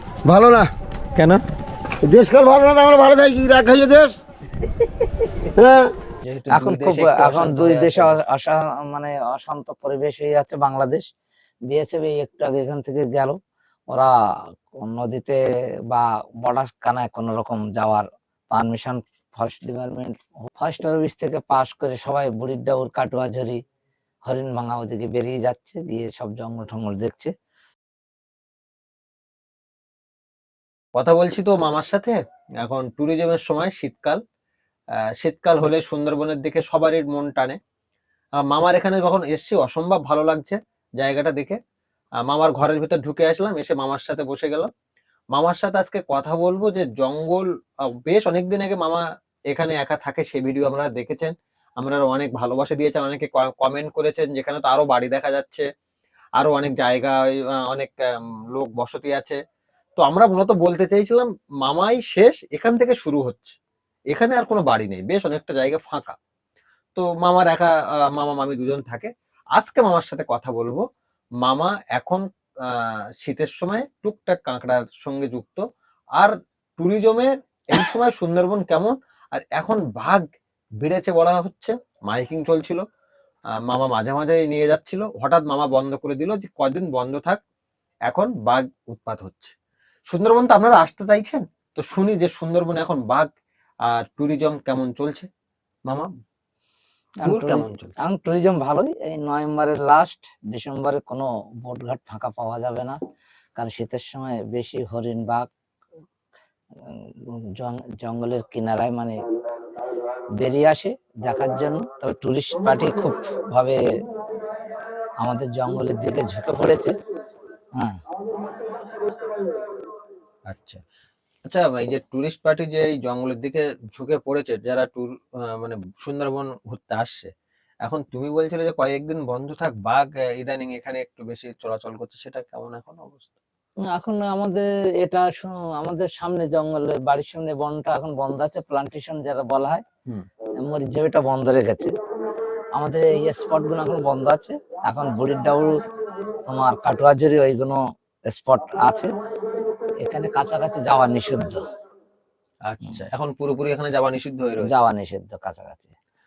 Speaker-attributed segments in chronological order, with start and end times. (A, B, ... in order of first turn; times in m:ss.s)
0:00.2-0:00.7 A
0:02.0-0:04.2 A
0:05.6-0:05.9 A
0:06.2-0:08.2 B
0:06.5-0:11.1 C
0:11.7-0:13.4 C
0:14.8-0:23.6 C
0:24.3-0:27.3 C
0:31.0-0:34.2 B
0:35.2-0:37.6 B
0:38.4-0:41.6 B
0:42.2-0:44.7 B
0:45.3-0:55.7 B
0:56.4-0:59.4 B
1:00.0-1:03.6 B
1:04.1-1:06.2 B
1:07.0-1:10.8 B
1:11.4-1:15.6 B
1:16.2-1:20.2 B
1:20.8-1:22.8 B
1:23.6-1:27.4 B
1:28.1-1:29.5 B
1:30.1-1:33.3 B
1:33.9-1:35.3 B
1:37.2-1:43.0 C
1:37.2-1:38.0 B
1:43.6-1:45.5 C
1:46.9-1:49.2 C
1:50.4-1:53.8 C
1:55.2-1:56.9 C
1:57.8-1:58.0 C
2:00.5-2:00.8 B
2:01.4-2:07.3 B
2:07.8-2:13.4 B
2:13.8-2:19.8 C
2:20.6-2:21.9 C
2:22.8-2:25.8 C
2:26.5-2:29.1 C
2:30.0-2:31.6 C
2:32.7-2:34.7 B
2:34.6-2:36.0 C